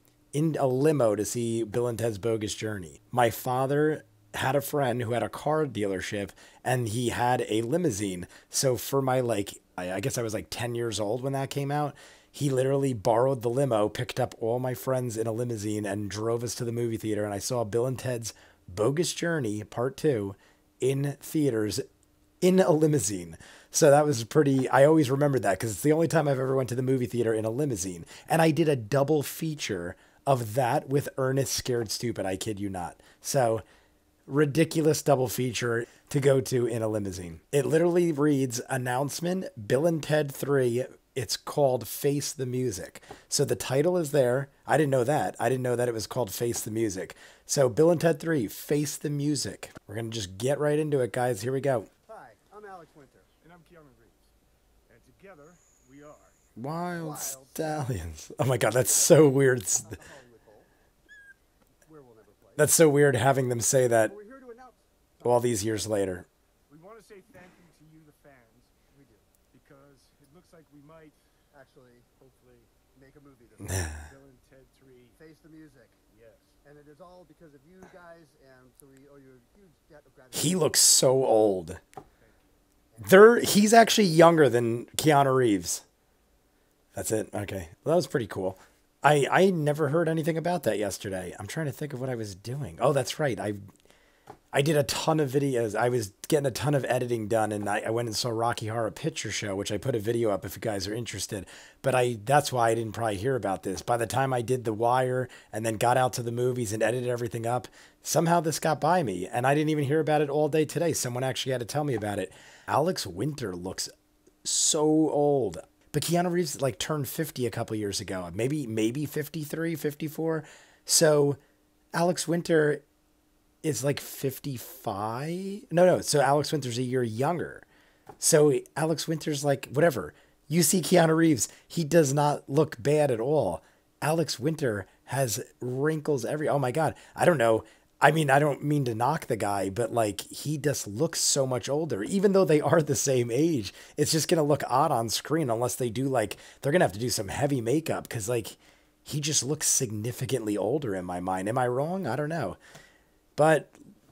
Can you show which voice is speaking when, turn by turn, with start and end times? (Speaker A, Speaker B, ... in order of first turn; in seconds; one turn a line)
Speaker A: 0.3-21.8
Speaker A: 22.4-33.6
Speaker A: 34.3-51.9
Speaker B: 52.1-53.3
Speaker C: 53.4-54.3
Speaker C: 54.9-56.4
Speaker A: 56.6-60.0
Speaker B: 57.0-57.9
Speaker B: 59.8-60.7
Speaker B: 61.9-62.7
Speaker A: 62.6-64.2
Speaker B: 64.0-66.0
Speaker A: 65.2-66.3
Speaker C: 66.7-68.7
Speaker B: 68.9-69.3
Speaker C: 69.5-71.2
Speaker B: 71.5-72.1
Speaker C: 72.2-72.7
Speaker B: 72.9-74.0
Speaker A: 73.7-74.0
Speaker C: 74.0-75.2
Speaker B: 75.2-76.0
Speaker C: 76.1-76.6
Speaker B: 76.6-81.0
Speaker A: 80.3-81.8
Speaker C: 82.2-82.5
Speaker B: 82.9-83.5
Speaker A: 83.0-85.8
Speaker A: 86.9-93.6
Speaker A: 94.5-113.9
Speaker A: 114.4-121.4
Speaker A: 121.9-122.8
Speaker A: 123.6-127.7
Speaker A: 128.2-152.6
Speaker A: 153.4-153.7